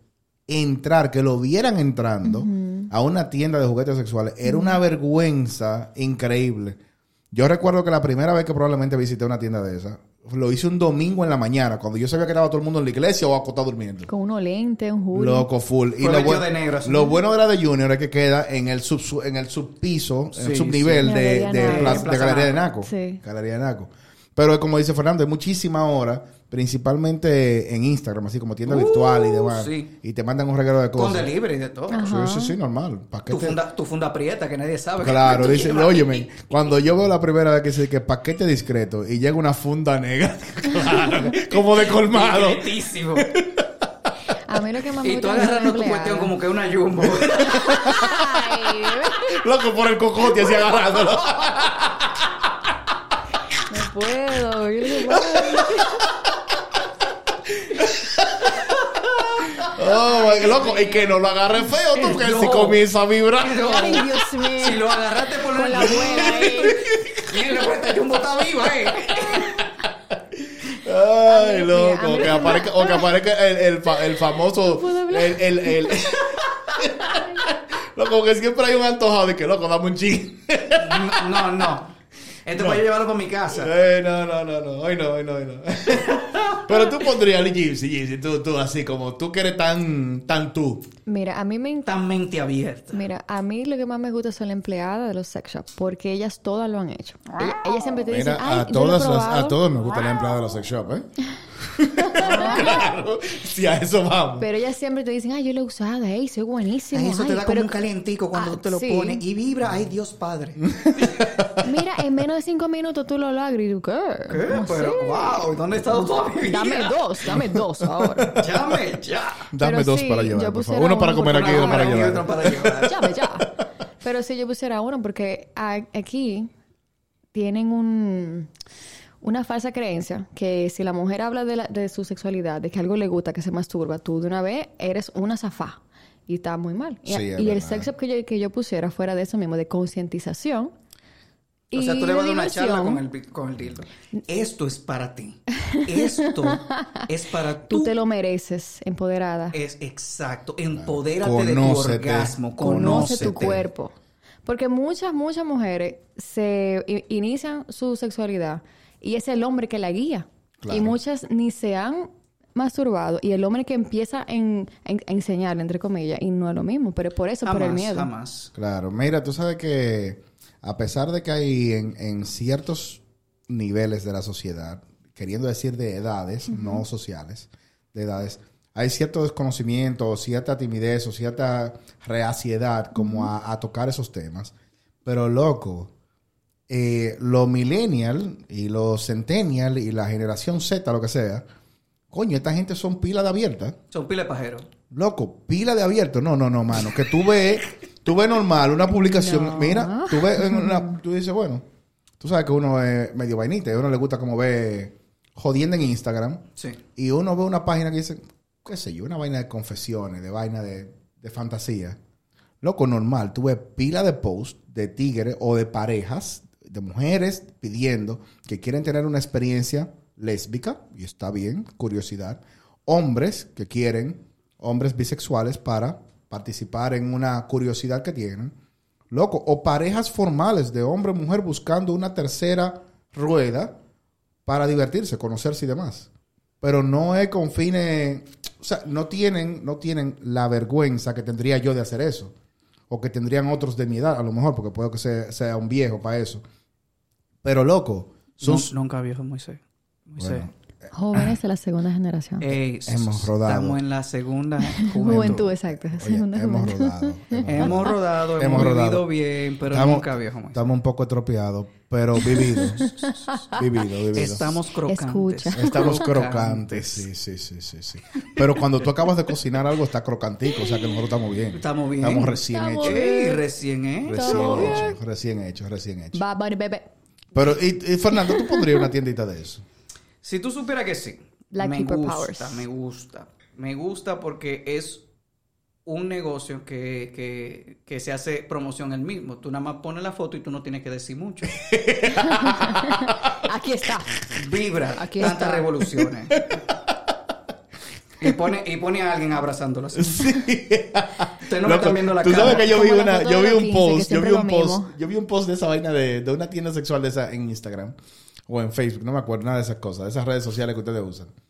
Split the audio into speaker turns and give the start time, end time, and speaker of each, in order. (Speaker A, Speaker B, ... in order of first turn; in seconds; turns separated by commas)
Speaker A: 0.5-6.8, Speaker B: 2.2-2.9, Speaker B: 4.5-4.8, Speaker A: 7.3-14.1, Speaker B: 14.1-15.5, Speaker A: 15.1-31.3, Speaker C: 16.0-17.1, Speaker C: 20.3-22.6, Speaker B: 21.0-22.1, Speaker B: 22.8-23.2, Speaker C: 28.7-29.9, Speaker C: 30.9-32.1, Speaker B: 31.9-32.5, Speaker A: 32.0-33.6, Speaker C: 33.3-36.5, Speaker A: 35.0-43.7, Speaker C: 41.0-43.3, Speaker B: 44.5-46.3, Speaker C: 45.0-48.0, Speaker A: 47.1-48.4, Speaker B: 47.7-49.4, Speaker A: 49.0-52.7, Speaker B: 53.7-56.0, Speaker A: 55.0-56.0, Speaker A: 57.5-58.7, Speaker A: 59.5-63.7, Speaker B: 59.8-61.0, Speaker C: 62.0-62.8, Speaker C: 63.4-69.6, Speaker B: 63.6-64.9, Speaker B: 65.5-66.8, Speaker A: 65.8-67.2, Speaker A: 69.0-69.5, Speaker A: 70.1-81.7, Speaker B: 71.3-73.1, Speaker B: 74.7-76.0, Speaker B: 77.1-77.4, Speaker C: 80.8-81.9, Speaker C: 82.5-83.7, Speaker A: 82.5-82.8, Speaker A: 83.5-90.9, Speaker B: 91.1-91.9, Speaker C: 91.9-93.0, Speaker B: 92.9-99.6, Speaker A: 98.1-104.5, Speaker B: 102.0-102.8, Speaker C: 102.3-102.7, Speaker B: 104.4-107.8, Speaker C: 106.9-111.2, Speaker B: 108.3-109.2, Speaker A: 110.6-111.7, Speaker B: 111.6-118.4, Speaker C: 114.3-117.0, Speaker A: 117.3-118.5, Speaker C: 118.3-119.5, Speaker A: 119.5-122.8, Speaker B: 119.6-122.0, Speaker C: 121.2-123.0, Speaker B: 122.8-126.5, Speaker B: 127.3-128.5, Speaker B: 129.2-140.7, Speaker A: 137.1-137.9, Speaker B: 141.7-143.0, Speaker C: 141.7-147.9, Speaker B: 145.6-147.1, Speaker B: 147.7-149.6, Speaker C: 149.5-153.7, Speaker A: 150.8-153.7, Speaker B: 152.6-168.1, Speaker A: 160.6-161.0, Speaker C: 167.4-168.5, Speaker A: 168.6-184.5, Speaker B: 176.5-176.8, Speaker B: 182.9-183.3, Speaker A: 185.1-185.9, Speaker A: 186.7-191.5, Speaker A: 192.1-193.8, Speaker C: 193.9-194.7, Speaker A: 194.9-201.7, Speaker B: 198.9-201.0, Speaker A: 202.2-206.4, Speaker A: 207.0-212.0, Speaker A: 212.6-228.5, Speaker A: 229.1-233.8, Speaker A: 234.5-236.1, Speaker A: 236.6-242.3, Speaker A: 242.9-246.4, Speaker A: 247.4-248.7, Speaker C: 248.4-250.5, Speaker A: 250.2-251.3, Speaker B: 250.9-252.5, Speaker C: 252.4-255.5, Speaker A: 252.9-253.8, Speaker B: 254.7-257.9, Speaker A: 255.0-259.1, Speaker C: 257.5-260.6, Speaker A: 259.7-264.6, Speaker B: 262.2-263.6, Speaker C: 264.1-267.1, Speaker B: 264.9-266.1, Speaker A: 265.5-273.1, Speaker C: 271.5-274.8, Speaker B: 272.3-273.4, Speaker A: 274.0-276.2, Speaker B: 274.1-274.9, Speaker B: 276.1-276.9, Speaker A: 277.3-279.6, Speaker B: 278.2-278.8, Speaker C: 280.2-285.0, Speaker B: 281.5-282.6, Speaker C: 285.9-291.6, Speaker A: 291.5-293.4, Speaker B: 292.1-294.2, Speaker C: 294.3-296.5, Speaker B: 295.0-295.7, Speaker A: 296.4-297.0, Speaker C: 298.2-300.3, Speaker A: 299.9-308.0, Speaker C: 301.4-302.8, Speaker B: 302.3-304.9, Speaker A: 308.5-311.3